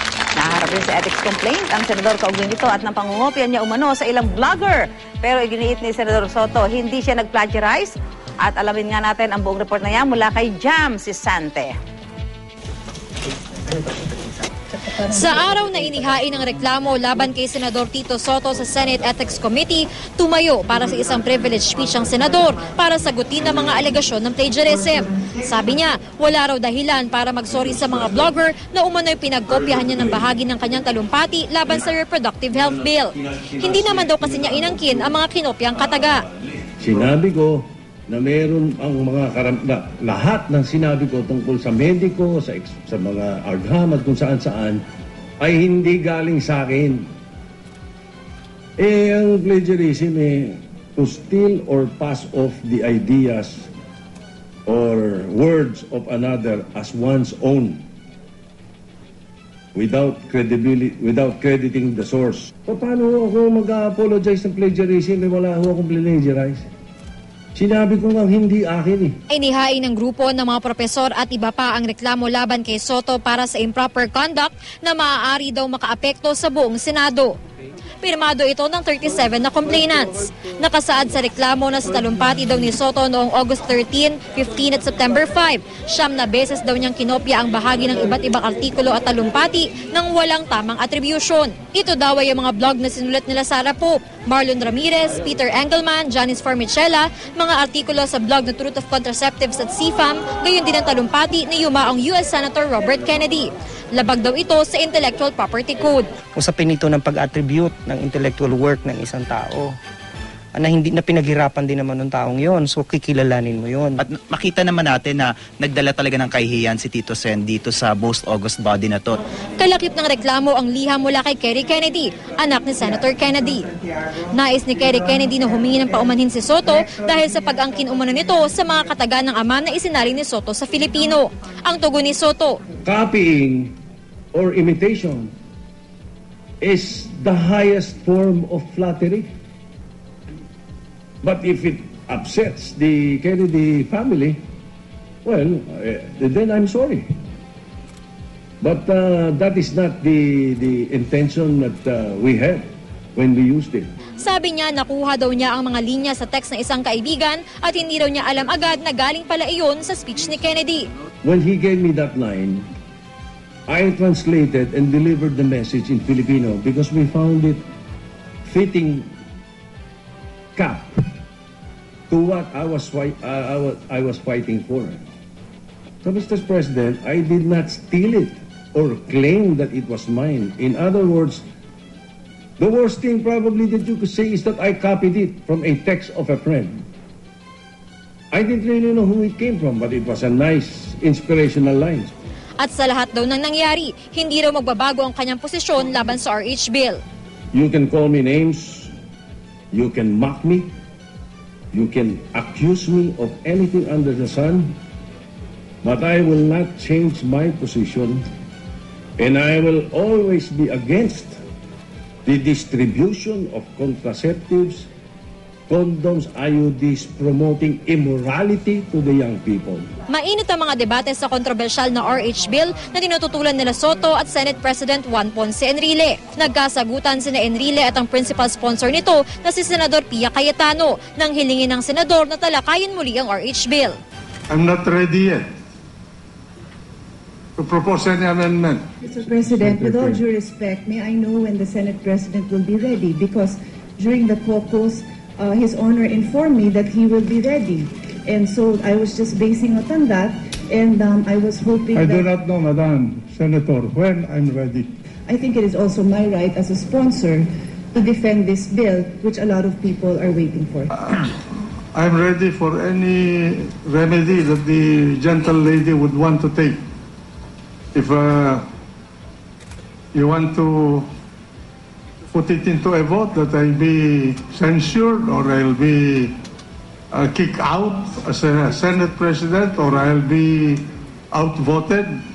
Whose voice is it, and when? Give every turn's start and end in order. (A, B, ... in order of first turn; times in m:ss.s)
0:00.4-0:11.7 A
0:14.9-0:36.3 B
0:36.8-0:44.8 C
0:45.4-0:47.1 C
0:48.8-0:53.7 C
0:54.7-0:57.8 C
0:59.8-1:06.7 C
1:07.6-1:09.2 C
1:09.3-1:17.4 B
1:18.0-1:46.1 B
1:46.4-1:49.7 D
1:50.6-1:54.0 D
1:54.0-1:59.2 E
1:59.6-2:03.7 B
2:04.3-2:12.6 B
2:12.8-2:13.8 C
2:14.3-2:15.3 C
2:16.6-2:19.3 C
2:21.2-2:24.4 C
2:25.2-2:27.1 C
2:28.6-2:33.9 C
2:34.2-2:40.9 B
2:41.2-2:42.7 C
2:43.7-2:47.6 C
2:48.4-2:49.1 C
2:50.6-2:51.0 C
2:52.1-2:55.0 C
2:56.0-3:01.4 C
3:02.6-3:06.8 C
3:08.3-3:12.1 C
3:12.6-3:17.0 B
3:17.5-3:18.9 C
3:19.7-3:20.7 C
3:21.7-3:24.8 C
3:25.8-3:28.3 C
3:29.2-3:31.4 C
3:32.2-3:34.9 C
3:35.7-3:39.9 C
3:40.1-3:54.0 B
3:54.5-3:55.5 F
3:57.6-4:00.2 F
3:59.0-4:12.3 G
4:11.9-4:14.9 F
4:15.3-4:20.9 G
4:21.9-4:26.8 F
4:27.9-4:28.6 F
4:30.1-4:31.1 F
4:32.3-4:36.3 F
4:37.1-4:42.2 F